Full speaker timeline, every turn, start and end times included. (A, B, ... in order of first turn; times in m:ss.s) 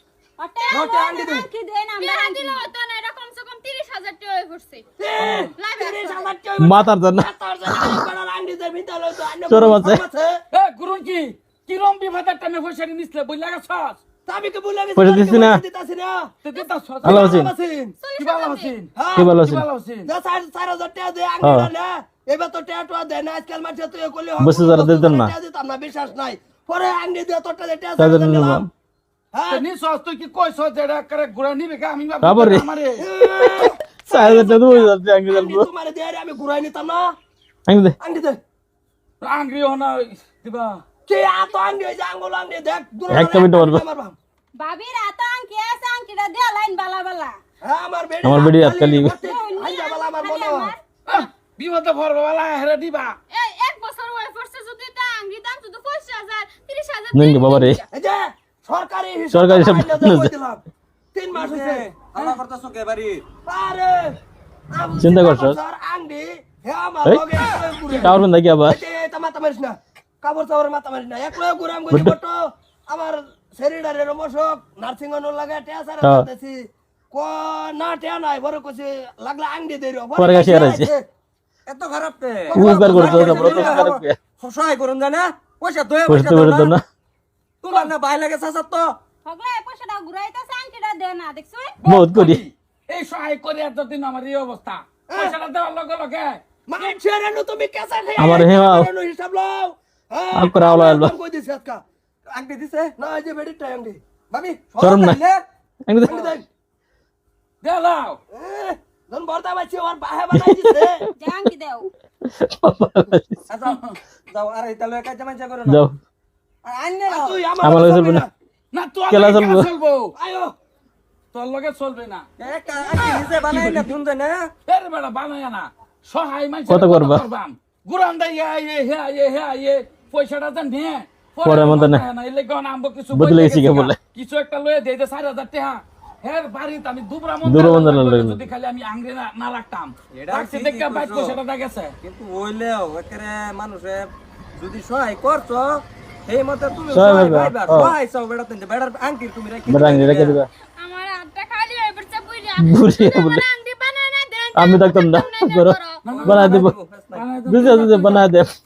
0:00.4-0:04.8 A
0:00.7-0:01.5 B
0:05.0-0:10.4 B
0:05.2-0:05.5 C
0:05.6-0:06.3 A
0:06.6-0:08.0 D
0:09.5-0:10.0 D
0:10.5-0:14.0 C
0:14.3-0:16.3 B
0:15.0-0:15.6 D
0:16.4-0:17.3 C
0:17.0-0:18.0 B
0:17.0-0:17.5 D
0:18.0-0:18.8 A
0:18.2-0:18.9 C
0:19.0-0:19.4 B
0:19.2-0:19.6 D
0:19.4-0:20.1 C
0:20.1-0:28.7 B
0:21.4-0:21.7 D
0:24.4-0:25.3 D
0:28.0-0:28.7 D
0:29.3-0:29.7 B
0:29.5-0:33.0 C
0:32.2-0:32.7 D
0:33.0-0:37.1 B
0:34.1-0:35.7 D
0:37.7-0:38.0 D
0:38.0-0:38.4 B
0:39.2-0:40.8 C
0:41.1-0:44.2 B
0:43.1-0:43.8 D
0:44.6-0:47.4 A
0:47.6-0:50.7 B
0:48.2-0:49.2 D
0:49.2-0:50.8 A
0:51.1-0:53.2 C
0:53.3-0:57.8 A
0:57.1-0:57.8 D
0:57.9-1:00.6 B
0:59.3-1:00.3 D
1:01.1-1:01.9 B
1:01.3-1:03.2 E
1:03.5-1:04.2 B
1:04.7-1:21.1 B
1:05.0-1:05.6 D
1:07.9-1:08.8 D
1:20.2-1:20.9 D
1:21.7-1:26.8 E
1:22.5-1:23.9 B
1:22.6-1:24.2 D
1:26.1-1:26.8 D
1:27.6-1:29.0 E
1:29.2-1:31.8 A
1:31.8-1:36.4 C
1:31.8-1:32.4 D
1:35.1-1:35.4 B
1:36.7-1:41.8 B
1:38.2-1:38.9 D
1:40.4-1:41.1 D
1:42.3-1:43.0 E
1:43.0-1:45.2 B
1:44.8-1:45.2 D
1:45.9-1:46.3 D
1:46.0-1:46.5 B
1:47.6-1:48.2 C
1:48.3-1:51.0 B
1:50.4-1:50.8 D
1:51.2-1:51.9 A
1:52.3-1:53.4 D
1:53.5-1:55.8 E
1:55.7-1:56.0 D
1:56.6-1:57.4 E
1:57.1-1:58.3 B
1:57.6-1:58.2 D
1:58.7-2:00.1 C
1:59.1-1:59.7 D
2:00.2-2:00.5 B
2:01.3-2:02.3 C
2:02.4-2:04.5 E
2:04.7-2:21.9 C
2:06.7-2:07.3 D
2:11.4-2:12.0 D
2:13.1-2:14.0 D
2:17.4-2:18.5 D
2:20.1-2:21.4 E
2:22.0-2:30.4 E
2:26.9-2:28.0 D
2:29.7-2:30.5 D
2:30.8-2:36.3 A
2:32.6-2:33.4 D
2:34.6-2:36.7 D
2:36.0-2:38.3 C
2:36.1-2:37.3 E
2:37.5-2:38.5 D